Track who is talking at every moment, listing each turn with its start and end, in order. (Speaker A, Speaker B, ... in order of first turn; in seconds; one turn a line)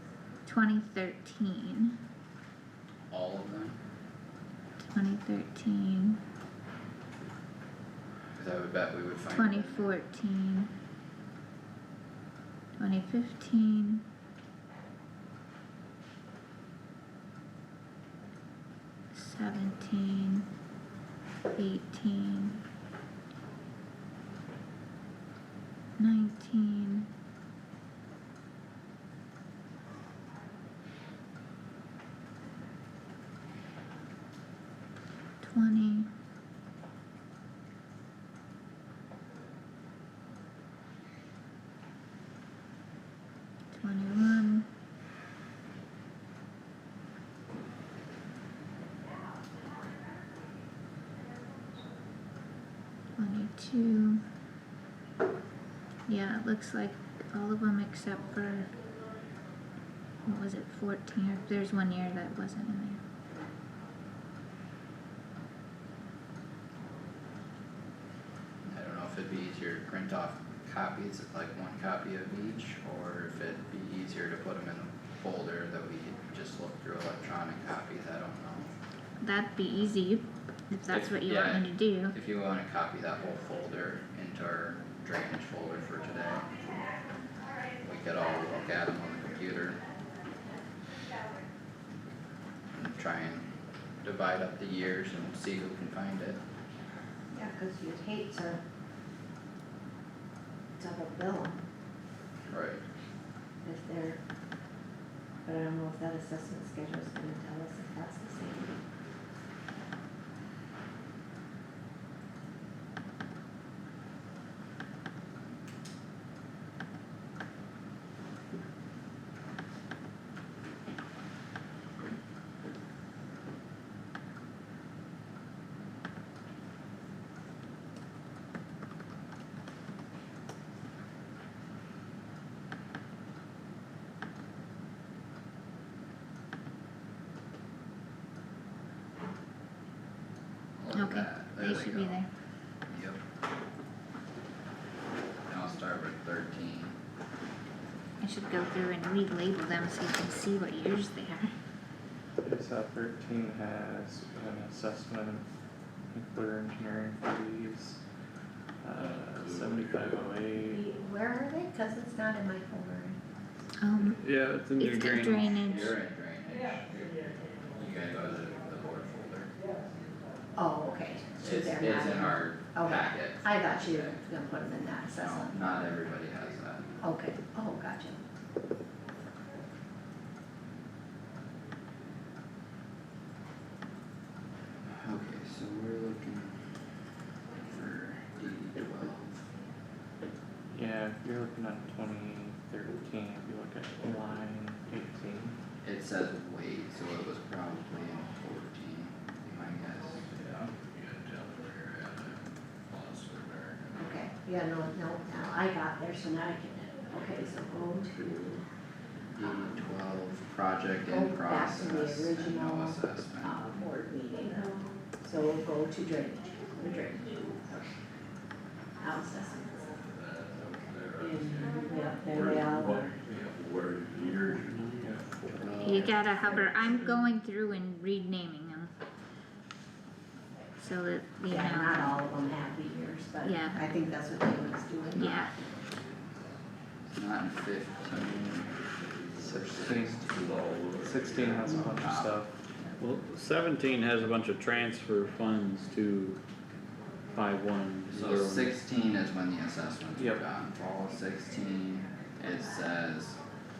Speaker A: 0.5-2.0
Speaker B: 3.1-3.8
Speaker A: 4.8-6.2
Speaker B: 8.3-9.9
Speaker A: 9.3-10.7
Speaker A: 12.8-14.1
Speaker A: 19.1-20.5
Speaker A: 21.5-22.6
Speaker A: 26.0-27.1
Speaker A: 35.4-36.1
Speaker A: 43.7-44.7
Speaker A: 53.2-54.2
Speaker A: 56.1-58.7
Speaker A: 60.3-63.0
Speaker B: 68.7-78.7
Speaker A: 79.2-82.2
Speaker B: 80.9-86.6
Speaker B: 87.8-89.8
Speaker B: 92.7-93.5
Speaker B: 94.0-96.4
Speaker C: 97.3-98.6
Speaker C: 100.8-101.6
Speaker B: 102.5-102.8
Speaker C: 103.6-104.2
Speaker C: 105.5-108.8
Speaker B: 140.8-142.2
Speaker A: 140.9-142.3
Speaker B: 142.9-143.2
Speaker B: 145.5-147.0
Speaker A: 148.2-151.5
Speaker D: 152.4-155.5
Speaker D: 156.1-158.0
Speaker D: 158.8-160.8
Speaker E: 158.9-160.2
Speaker C: 160.6-163.2
Speaker A: 163.8-164.2
Speaker F: 164.2-165.5
Speaker A: 164.8-165.9
Speaker B: 165.4-169.5
Speaker C: 170.6-175.8
Speaker B: 171.4-174.2
Speaker B: 175.1-176.9
Speaker C: 177.0-178.2
Speaker B: 184.9-186.6
Speaker B: 187.5-189.5
Speaker D: 190.7-195.6
Speaker B: 195.8-200.3
Speaker D: 200.4-200.7
Speaker E: 200.7-204.1
Speaker C: 203.9-208.7
Speaker B: 209.3-213.9
Speaker C: 211.1-217.9
Speaker C: 219.0-219.9
Speaker E: 220.0-227.1
Speaker C: 221.2-223.2
Speaker D: 225.0-225.3
Speaker B: 225.6-226.1
Speaker A: 225.8-228.9
Speaker A: 230.8-232.2
Speaker C: 231.5-235.4
Speaker A: 233.4-233.8
Speaker A: 235.1-235.5
Speaker B: 237.1-240.8
Speaker E: 239.4-242.1
Speaker D: 239.7-240.2
Speaker D: 240.9-242.6
Speaker B: 241.7-242.4
Speaker F: 243.0-246.4
Speaker F: 247.3-248.8
Speaker B: 248.1-253.4
Speaker D: 250.2-250.4